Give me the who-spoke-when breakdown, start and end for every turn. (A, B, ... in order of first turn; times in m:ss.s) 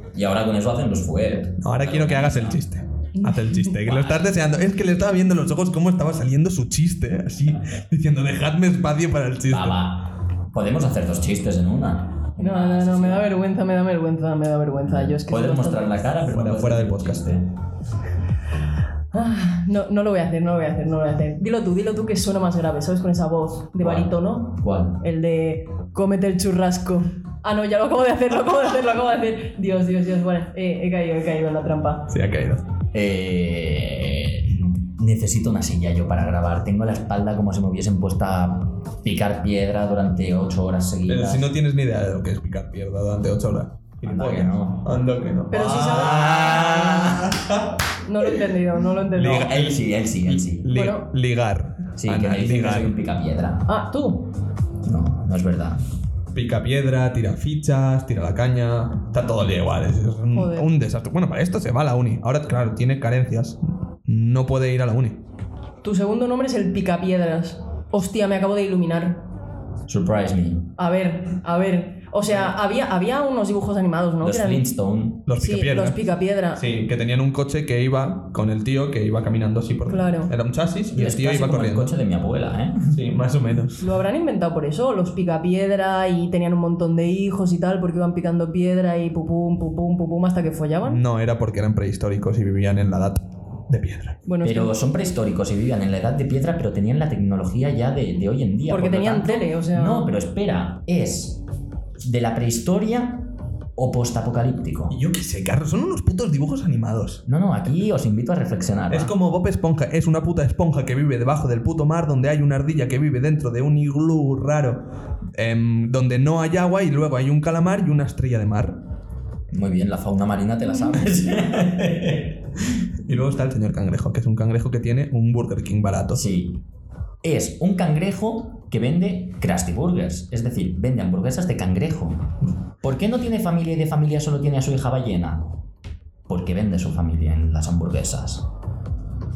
0:00.1-0:02.6 A
0:01.6-0:09.8 B
0:03.2-0:03.7 C
0:03.8-0:04.3 A
0:09.5-0:13.3 A
0:12.4-0:16.0 C
0:14.8-0:17.5 A
0:16.2-0:17.2 B
0:19.1-0:32.1 C
0:23.8-0:25.0 A
0:32.1-0:32.6 B
0:32.9-0:41.5 A
0:41.1-0:47.8 B
0:44.0-0:44.9 A
0:45.5-0:46.4 C
0:45.6-0:47.5 A
0:48.0-0:49.5 C
0:49.1-0:52.9 B
0:49.2-0:50.7 A
0:50.7-0:51.0 C
0:52.0-0:53.7 A
0:53.7-0:54.3 C
0:54.8-0:55.8 A
0:56.3-1:05.2 B
1:00.3-1:00.7 C
1:05.8-1:09.2 C
1:09.9-1:10.7 A
1:10.8-1:14.6 C
1:14.2-1:15.2 A
1:15.2-1:16.0 B
1:15.3-1:16.6 C
1:16.5-1:21.9 B
1:19.9-1:20.3 C
1:20.9-1:23.0 A
1:22.9-1:23.8 B
1:23.8-1:31.0 C
1:30.8-1:34.2 B
1:34.2-1:34.7 C
1:34.4-1:41.4 A
1:38.7-1:40.1 C
1:42.0-1:45.0 A
1:44.9-1:47.2 B
1:47.2-1:49.1 A
1:48.9-1:58.8 B
1:59.5-2:02.6 A
2:03.0-2:06.2 B
2:06.1-2:06.6 A
2:07.2-2:15.6 A
2:16.3-2:18.5 A